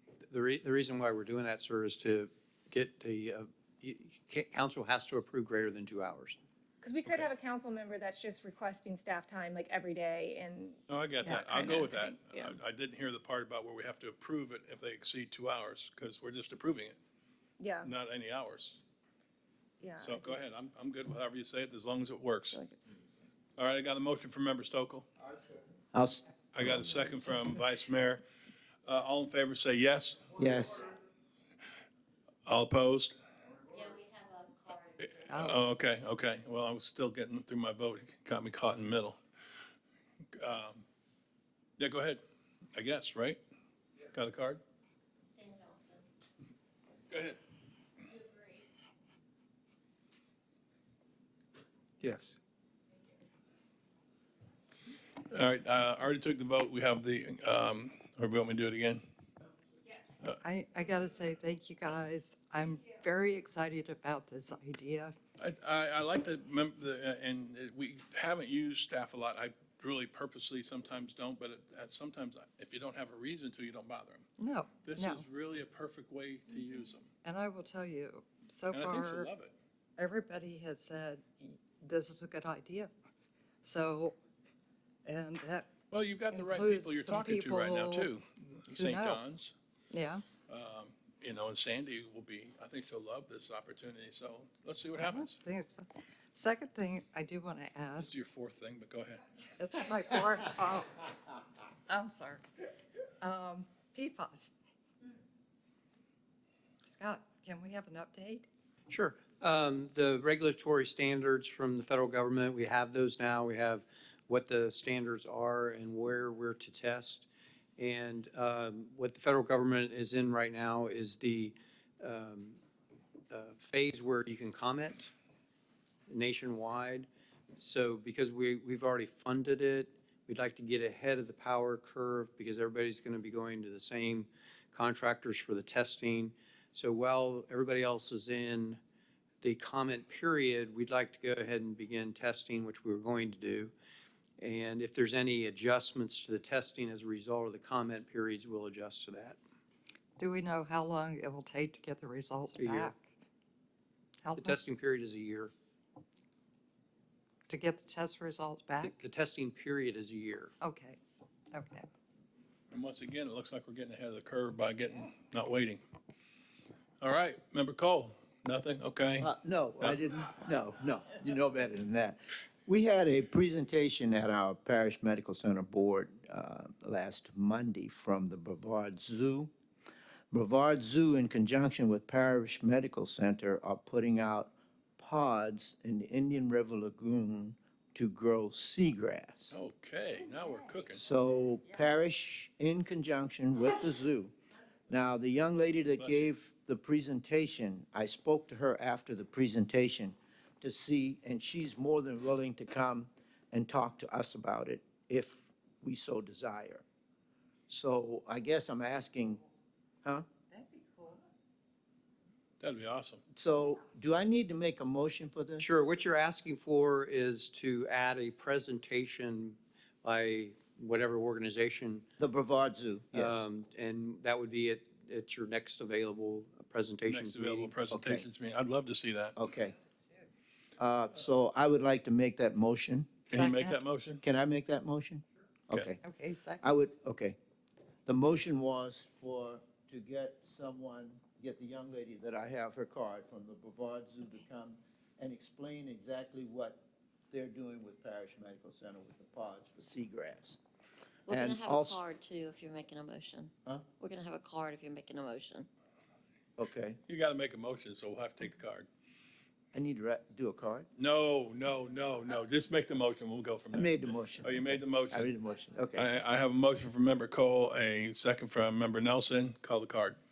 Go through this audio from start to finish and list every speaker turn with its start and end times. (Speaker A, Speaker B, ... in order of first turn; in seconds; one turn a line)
Speaker A: 0.3-6.4
Speaker B: 6.8-12.6
Speaker C: 10.9-17.0
Speaker B: 17.6-17.9
Speaker C: 17.8-18.8
Speaker B: 19.8-20.4
Speaker C: 20.0-22.6
Speaker C: 23.6-25.1
Speaker D: 25.9-26.6
Speaker C: 26.5-28.2
Speaker C: 28.9-30.4
Speaker D: 30.4-30.9
Speaker C: 32.5-33.1
Speaker E: 33.8-35.0
Speaker C: 35.0-39.2
Speaker F: 35.3-35.6
Speaker C: 40.4-40.8
Speaker C: 41.8-42.2
Speaker C: 42.8-43.4
Speaker C: 44.1-44.6
Speaker E: 45.3-46.0
Speaker C: 47.1-47.4
Speaker A: 52.0-52.4
Speaker C: 55.3-59.0
Speaker F: 60.4-65.2
Speaker C: 65.4-74.3
Speaker F: 74.4-75.2
Speaker C: 74.8-77.1
Speaker F: 77.2-79.3
Speaker C: 78.7-79.5
Speaker F: 80.0-82.9
Speaker F: 83.6-84.2
Speaker F: 85.0-85.7
Speaker C: 85.9-89.5
Speaker F: 86.3-88.1
Speaker F: 88.7-89.2
Speaker F: 89.9-90.2
Speaker C: 90.5-95.4
Speaker F: 95.0-98.1
Speaker C: 98.0-99.2
Speaker F: 99.6-101.2
Speaker F: 101.9-102.4
Speaker F: 103.2-104.5
Speaker F: 106.8-108.5
Speaker A: 108.9-117.3
Speaker A: 117.8-122.6
Speaker A: 123.3-125.1
Speaker A: 126.1-138.8
Speaker A: 139.4-143.7
Speaker A: 144.4-149.4
Speaker F: 150.2-153.0
Speaker A: 152.6-152.9
Speaker F: 154.2-154.6
Speaker A: 154.3-155.5
Speaker F: 157.5-159.0
Speaker A: 158.8-160.5
Speaker F: 160.6-161.0
Speaker F: 161.5-161.9
Speaker C: 162.7-165.8
Speaker C: 167.0-170.0
Speaker D: 169.2-179.5
Speaker D: 180.3-189.6
Speaker C: 189.5-191.0
Speaker D: 190.9-194.3
Speaker D: 194.9-206.8
Speaker C: 196.0-196.3
Speaker D: 207.7-209.4
Speaker F: 210.5-211.2
Speaker C: 212.6-213.2
Speaker D: 213.3-215.7
Speaker A: 215.6-222.1
Speaker D: 222.2-223.4
Speaker A: 223.1-227.8
Speaker C: 227.1-229.4
Speaker D: 227.9-228.3
Speaker D: 229.4-229.8
Speaker D: 230.8-233.2
Speaker C: 233.3-234.2
Speaker F: 233.3-233.8
Speaker D: 234.2-236.0
Speaker F: 236.0-236.7
Speaker D: 236.6-237.4
Speaker D: 238.1-250.6
Speaker E: 251.3-255.7
Speaker D: 251.3-252.0
Speaker D: 256.6-257.0
Speaker C: 257.1-258.9
Speaker D: 259.7-260.9
Speaker C: 261.0-265.3
Speaker D: 263.7-266.1
Speaker C: 265.9-270.2